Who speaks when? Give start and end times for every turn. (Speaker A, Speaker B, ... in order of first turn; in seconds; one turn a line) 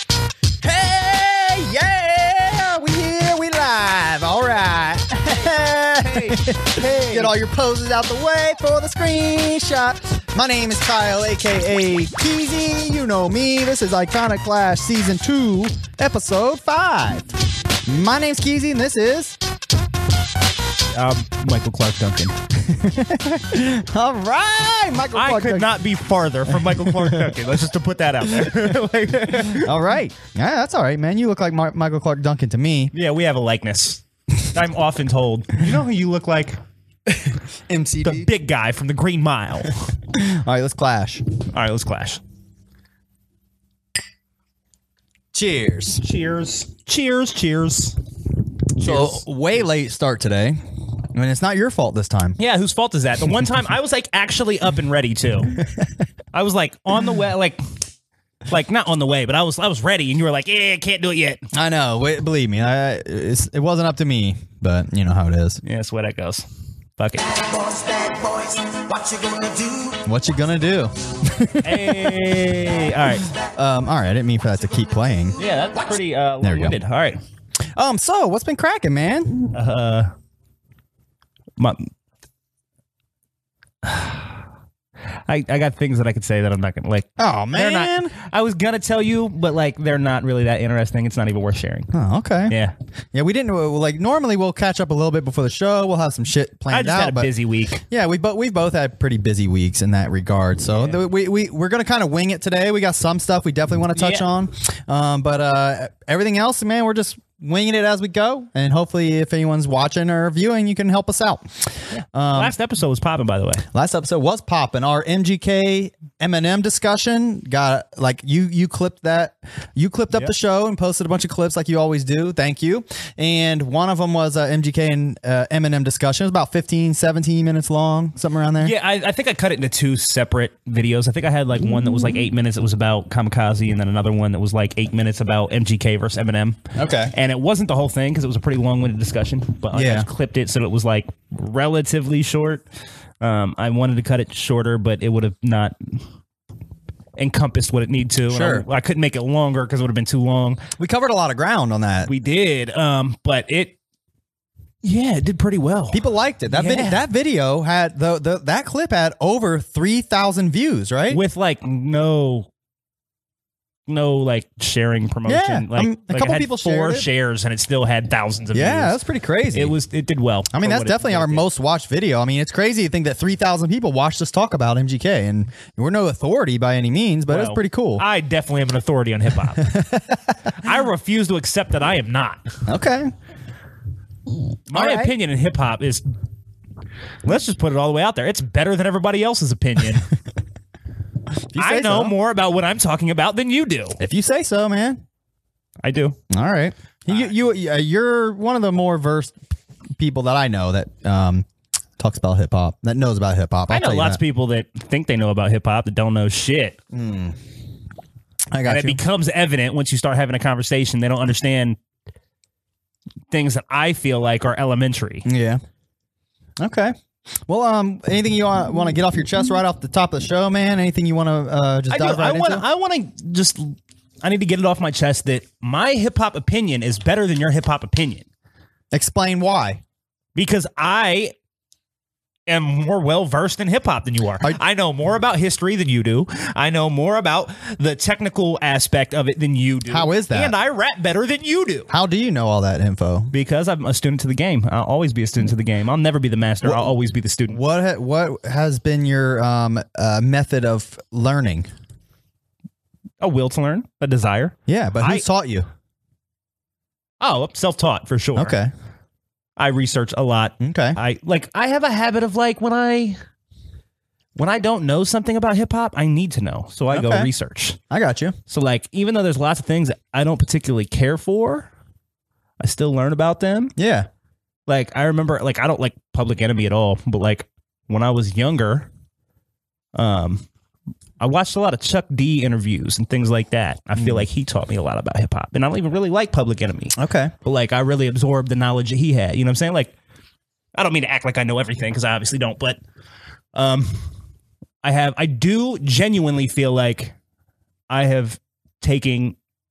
Speaker A: 0.6-17.3
Speaker B: 6.0-7.3
Speaker A: 17.9-19.4
Speaker B: 20.9-22.4
Speaker A: 22.6-25.7
Speaker B: 25.1-29.7
Speaker A: 26.5-27.3
Speaker A: 29.5-32.9
Speaker B: 32.9-36.6
Speaker A: 37.2-38.3
Speaker B: 38.0-39.9
Speaker A: 40.1-41.2
Speaker B: 41.5-42.2
Speaker A: 45.3-46.0
Speaker B: 46.0-48.0
Speaker B: 48.8-49.2
Speaker A: 48.8-50.6
Speaker A: 51.1-52.4
Speaker B: 52.4-55.6
Speaker B: 56.3-57.6
Speaker B: 58.5-61.4
Speaker A: 61.5-65.6
Speaker B: 65.6-66.5
Speaker B: 67.0-67.4
Speaker C: 67.7-69.9
Speaker A: 69.9-72.4
Speaker B: 71.6-73.3
Speaker A: 73.3-75.4
Speaker B: 75.4-77.2
Speaker A: 76.4-76.8
Speaker A: 77.8-79.5
Speaker B: 79.5-80.1
Speaker B: 81.6-81.9
Speaker B: 83.8-84.4
Speaker B: 85.3-91.9
Speaker A: 87.2-88.1
Speaker A: 91.9-92.5
Speaker B: 92.5-92.7
Speaker A: 93.1-111.5
Speaker B: 96.7-97.8
Speaker B: 100.7-101.0
Speaker B: 104.0-104.3
Speaker B: 111.9-113.7
Speaker A: 112.1-112.5
Speaker A: 113.7-128.7
Speaker B: 128.6-142.6
Speaker A: 136.8-137.1
Speaker A: 139.7-140.1
Speaker B: 143.2-146.0
Speaker B: 147.2-150.6
Speaker A: 148.3-148.7
Speaker A: 150.8-152.1
Speaker B: 152.1-153.8
Speaker B: 154.8-157.0
Speaker A: 155.9-161.2
Speaker B: 161.1-162.5
Speaker B: 163.9-169.0
Speaker A: 165.3-167.1
Speaker A: 168.5-169.8
Speaker B: 169.5-171.5
Speaker A: 170.5-178.0
Speaker B: 177.3-179.8
Speaker A: 179.6-180.3
Speaker B: 180.5-182.5
Speaker A: 182.7-183.1
Speaker B: 184.7-186.1
Speaker A: 184.7-185.1
Speaker B: 187.2-190.1
Speaker A: 191.5-192.1
Speaker B: 191.6-194.0
Speaker A: 194.0-195.0
Speaker B: 195.8-196.2
Speaker A: 196.3-199.4
Speaker A: 200.0-201.5
Speaker A: 202.0-204.2
Speaker B: 203.7-206.8
Speaker A: 206.9-207.4
Speaker A: 208.5-209.0
Speaker B: 208.7-211.8
Speaker B: 213.3-215.2
Speaker A: 215.2-215.6
Speaker A: 216.6-217.0
Speaker A: 217.5-222.6
Speaker B: 221.9-228.3
Speaker A: 228.9-229.8
Speaker B: 230.4-231.3
Speaker B: 232.5-241.9
Speaker A: 239.9-240.5
Speaker A: 241.9-243.3
Speaker B: 243.3-247.6
Speaker A: 246.6-246.9
Speaker A: 247.5-251.7
Speaker B: 253.2-255.2
Speaker A: 254.7-255.7
Speaker B: 257.2-258.6
Speaker A: 258.4-258.7
Speaker B: 259.6-263.2
Speaker A: 260.6-261.0
Speaker B: 264.4-267.8
Speaker A: 266.9-267.3
Speaker A: 267.9-268.4
Speaker B: 268.5-271.7
Speaker B: 272.6-273.7
Speaker A: 273.8-274.1
Speaker B: 274.7-278.9
Speaker B: 279.9-280.4
Speaker B: 281.2-289.9
Speaker A: 284.0-284.2
Speaker A: 287.0-287.3
Speaker B: 290.8-292.8
Speaker B: 293.6-294.1
Speaker B: 294.8-297.1
Speaker B: 297.9-299.4